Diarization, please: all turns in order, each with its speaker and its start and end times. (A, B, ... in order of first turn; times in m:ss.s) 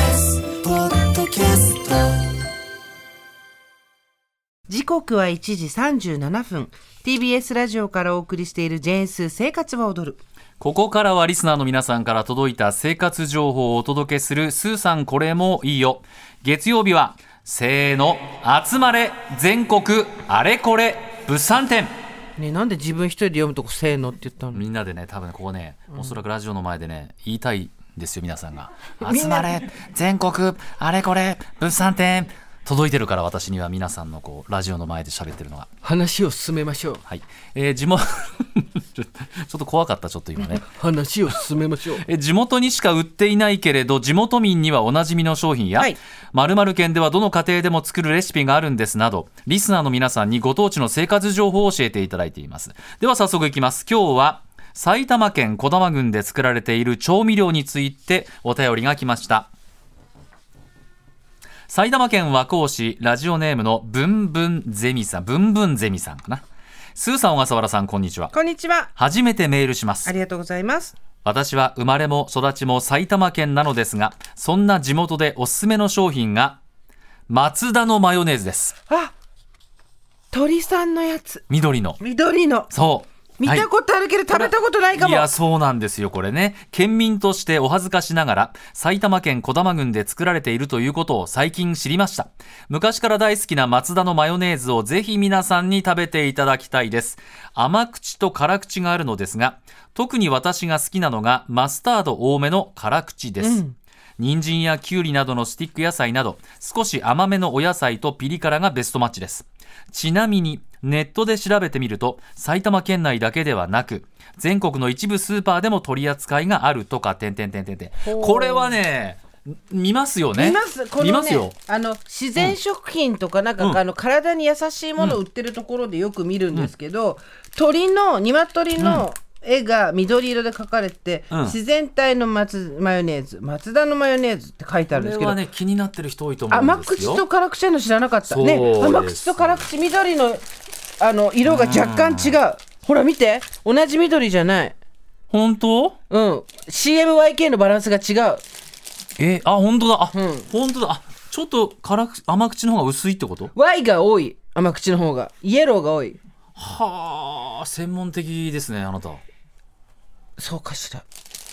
0:01.0-0:02.0 A
0:04.7-0:10.2 A
0:10.6-0:21.9 B
0:22.4-0:24.6 A
0:24.5-0:35.7 B
0:29.0-0:29.6 A
0:35.8-0:37.0 A
0:37.0-0:40.6 B
0:40.4-0:42.0 A
0:42.0-0:59.5 B
1:01.7-1:06.4 B
1:07.0-1:08.3 B
1:08.3-1:08.9 A
1:09.0-1:10.1 B
1:10.0-1:10.9 A
1:11.2-1:16.6 B
1:17.3-1:18.7 B
1:20.3-1:21.4 A
1:21.5-1:22.0 B
1:22.0-1:22.7 A
1:22.7-1:23.7 B
1:23.4-1:25.3 A
1:24.3-1:43.6 B
1:43.4-1:43.8 A
1:44.2-2:01.5 B
1:58.0-1:58.7 A
2:00.4-2:15.4 A
2:08.8-2:09.0 B
2:11.3-2:11.6 B
2:14.9-2:17.2 B
2:16.5-2:20.4 A
2:18.3-2:19.7 B
2:21.0-2:24.8 A
2:21.4-2:22.4 B
2:25.3-2:26.0 B
2:26.1-2:28.4 A
2:29.2-2:33.5 B
2:30.1-2:30.5 A
2:33.5-2:36.2 A
2:36.6-2:39.2 B
2:40.4-2:41.0 A